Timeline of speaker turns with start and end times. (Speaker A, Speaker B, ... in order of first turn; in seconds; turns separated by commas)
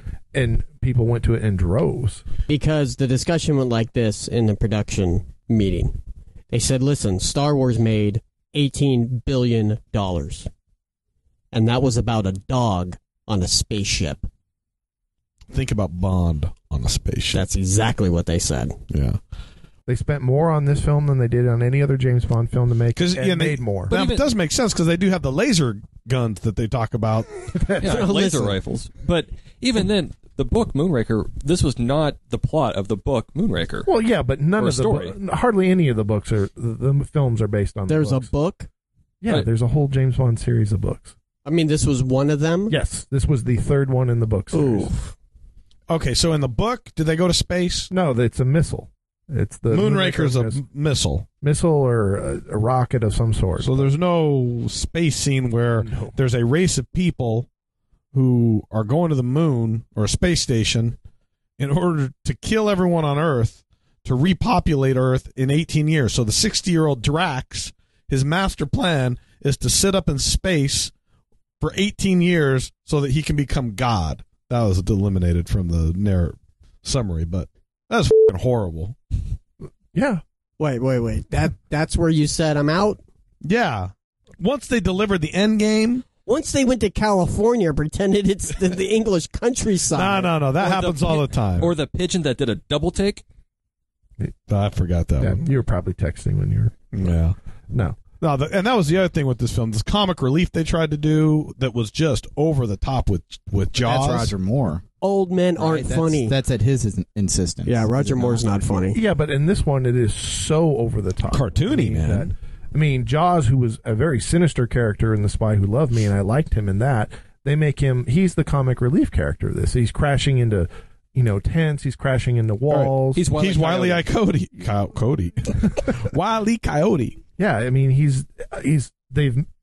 Speaker A: 0.3-2.2, Speaker B: 2.5-6.0, Speaker B: 6.5-10.5, Speaker B: 11.5-14.3, Speaker C: 15.5-17.4, Speaker B: 17.3-18.8, Speaker C: 18.9-19.2, Speaker A: 19.9-23.9, Speaker C: 22.9-27.3, Speaker D: 23.9-24.3, Speaker A: 27.5-28.0, Speaker D: 27.8-33.9, Speaker B: 27.8-28.6, Speaker A: 33.9-38.3, Speaker D: 34.6-35.1, Speaker B: 37.9-38.7, Speaker A: 39.2-41.1, Speaker B: 41.4-42.7, Speaker A: 42.7-44.9, Speaker B: 44.5-45.1, Speaker C: 45.9-47.9, Speaker A: 47.9-50.6, Speaker C: 49.7-51.3, Speaker A: 51.4-53.9, Speaker C: 53.6-57.5, Speaker A: 55.8-56.1, Speaker C: 58.1-61.0, Speaker C: 61.6-70.9, Speaker C: 71.6-79.0, Speaker A: 79.9-80.2, Speaker B: 80.6-83.0, Speaker C: 83.4-86.0, Speaker B: 86.2-90.5, Speaker C: 89.9-91.7, Speaker D: 90.5-93.2, Speaker C: 94.5-95.4, Speaker A: 95.2-96.8, Speaker C: 96.9-97.3, Speaker A: 97.7-98.0, Speaker C: 98.2-104.3, Speaker E: 103.7-104.8, Speaker B: 105.0-106.3, Speaker E: 105.6-108.8, Speaker B: 107.7-109.0, Speaker A: 108.9-123.2, Speaker C: 111.3-112.3, Speaker C: 122.7-127.2, Speaker D: 123.1-124.1, Speaker A: 127.4-129.4